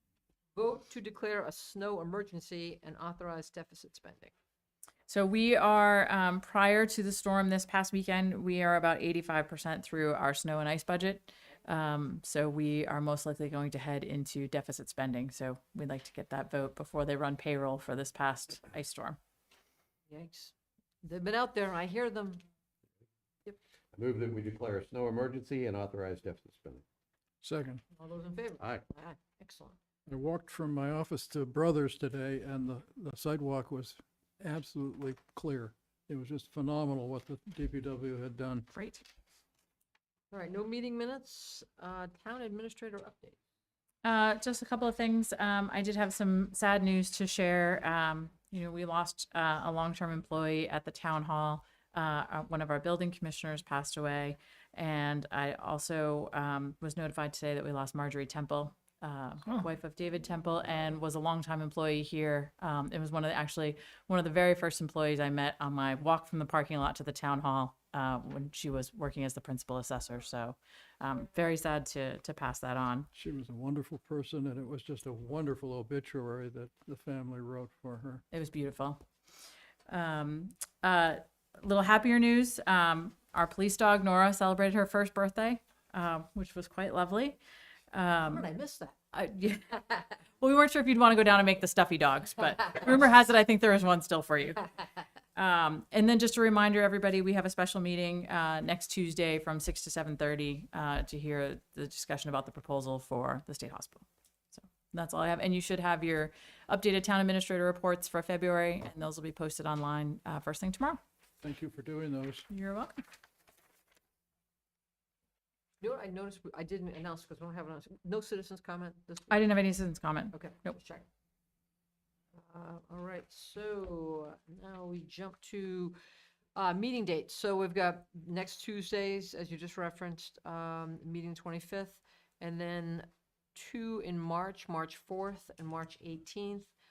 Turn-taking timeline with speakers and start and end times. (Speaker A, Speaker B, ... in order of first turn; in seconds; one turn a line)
Speaker A: 0.6-4.3
Speaker B: 5.1-19.2
Speaker A: 20.1-22.4
Speaker C: 23.9-26.8
Speaker D: 27.4-27.8
Speaker A: 27.9-29.8
Speaker D: 30.1-38.7
Speaker B: 38.7-39.0
Speaker A: 40.3-43.4
Speaker B: 44.0-73.1
Speaker D: 73.2-78.2
Speaker B: 78.3-79.0
Speaker B: 79.9-87.4
Speaker B: 87.9-88.5
Speaker A: 88.2-89.0
Speaker B: 89.1-94.7
Speaker B: 95.3-111.0
Speaker D: 111.4-112.5
Speaker B: 112.5-113.0
Speaker A: 115.8-119.5
Speaker B: 119.3-120.7
Speaker A: 120.3-121.1
Speaker A: 122.4-126.0
Speaker A: 126.5-136.7